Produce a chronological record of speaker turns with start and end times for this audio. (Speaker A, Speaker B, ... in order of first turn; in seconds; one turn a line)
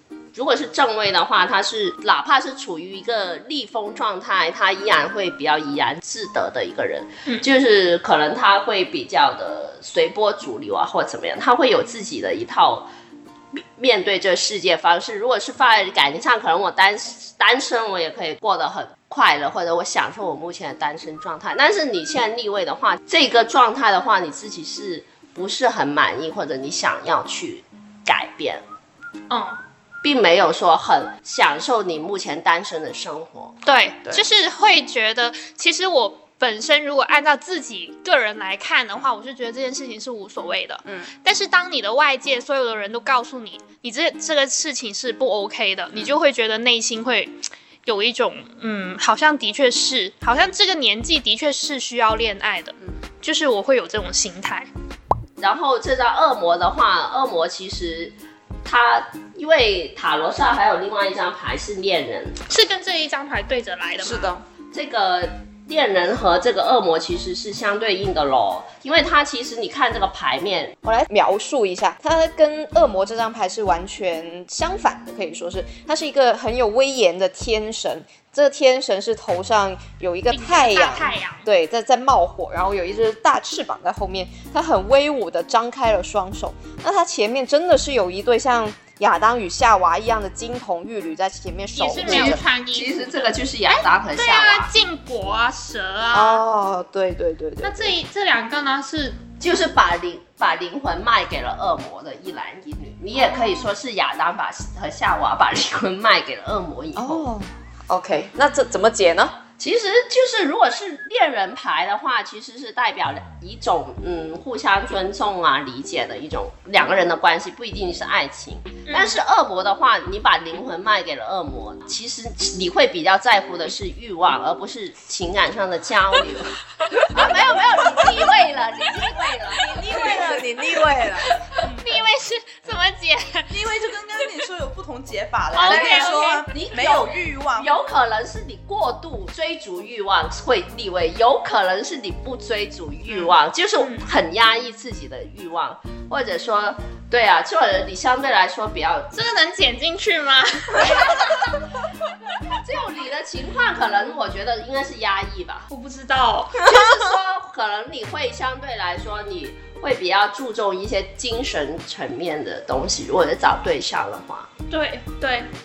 Speaker A: 0.3-12.9
Speaker A: 13.6-28.6
Speaker B: 29.3-29.6
Speaker A: 30.0-33.6
Speaker B: 33.6-47.3
Speaker B: 47.9-54.7
Speaker A: 55.4-62.4
Speaker B: 62.5-64.3
Speaker C: 64.0-64.4
Speaker A: 64.7-70.8
Speaker D: 70.8-92.4
Speaker B: 80.3-81.5
Speaker B: 91.8-96.4
Speaker A: 92.0-94.7
Speaker D: 96.1-97.9
Speaker B: 97.6-99.2
Speaker A: 99.4-107.3
Speaker B: 103.2-103.7
Speaker D: 107.0-109.4
Speaker A: 109.6-130.2
Speaker B: 118.9-119.2
Speaker D: 129.6-131.3
Speaker B: 131.6-133.6
Speaker C: 133.5-137.7
Speaker B: 135.5-136.5
Speaker A: 135.6-149.1
Speaker B: 143.1-144.1
Speaker B: 149.1-151.3
Speaker A: 150.8-151.6
Speaker A: 152.5-155.7
Speaker B: 155.7-156.7
Speaker A: 156.6-164.5
Speaker B: 164.7-165.5